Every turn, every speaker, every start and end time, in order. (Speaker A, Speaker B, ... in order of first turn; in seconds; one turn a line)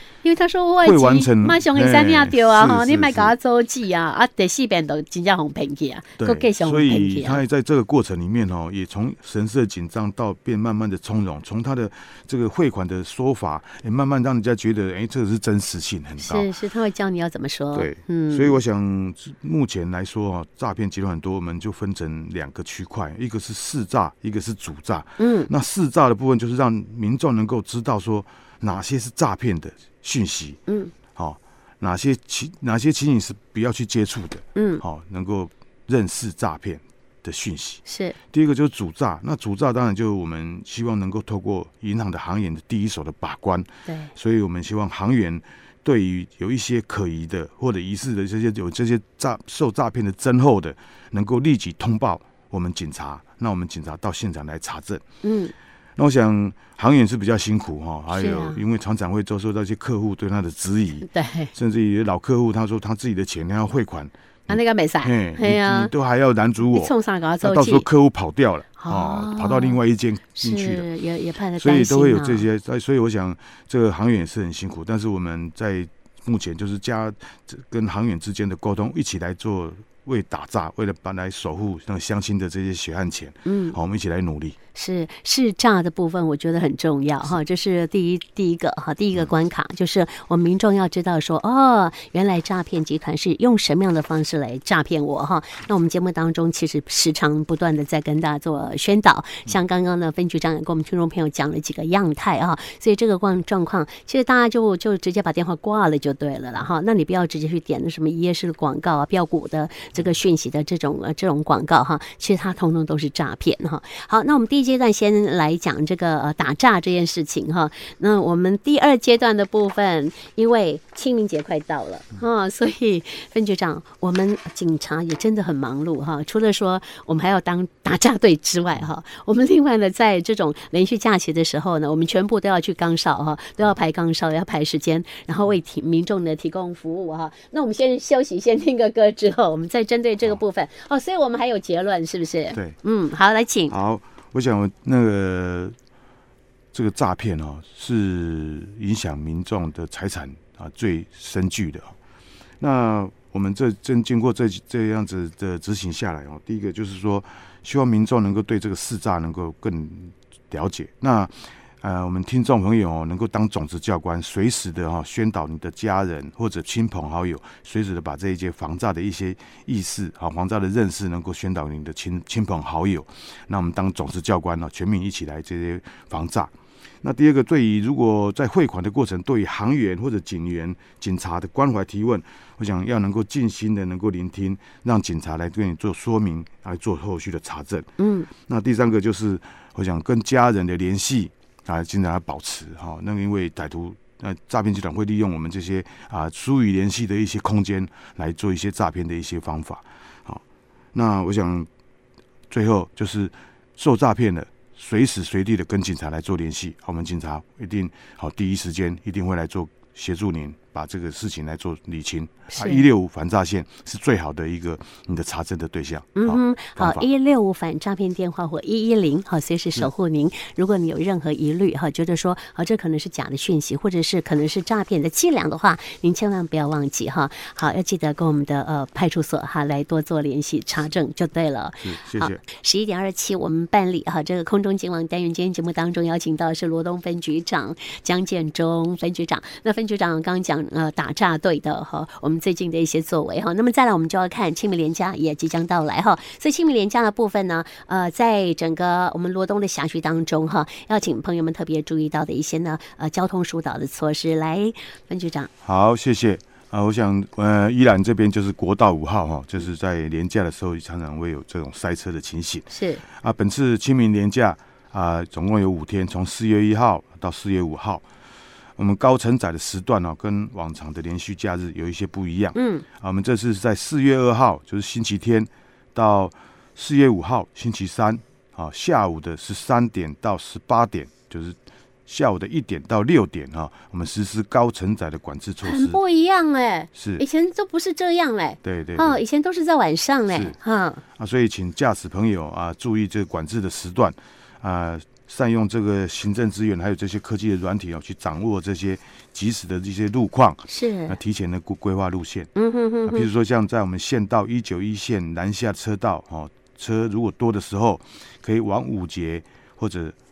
Speaker A: 0.2-7.4
Speaker B: 0.8-3.4
Speaker B: 6.2-16.5
Speaker A: 16.2-18.6
Speaker B: 17.7-30.6
Speaker A: 25.2-25.5
Speaker A: 30.7-30.9
Speaker B: 31.1-55.0
Speaker A: 34.5-34.8
Speaker A: 37.9-38.2
Speaker A: 43.9-44.1
Speaker A: 55.2-55.5
Speaker B: 56.0-70.9
Speaker A: 58.1-58.6
Speaker A: 61.1-61.5
Speaker A: 64.5-65.9
Speaker A: 66.7-67.9
Speaker A: 68.8-69.8
Speaker A: 70.4-72.5
Speaker B: 71.6-84.6
Speaker A: 83.5-83.8
Speaker A: 84.7-143.7
Speaker B: 143.7-145.8
Speaker B: 146.7-151.9
Speaker B: 152.6-187.9
Speaker A: 188.0-188.3
Speaker B: 188.4-200.4
Speaker B: 200.9-201.7
Speaker B: 202.5-217.1
Speaker A: 212.5-212.8
Speaker A: 216.2-255.5
Speaker B: 231.8-232.4
Speaker B: 255.6-268.0
Speaker A: 262.7-263.0
Speaker B: 268.8-286.0
Speaker A: 272.5-272.9
Speaker A: 285.6-291.0
Speaker B: 286.9-287.2
Speaker B: 288.6-289.2
Speaker B: 291.2-302.5
Speaker A: 300.7-301.2
Speaker A: 302.6-303.3
Speaker B: 303.1-310.1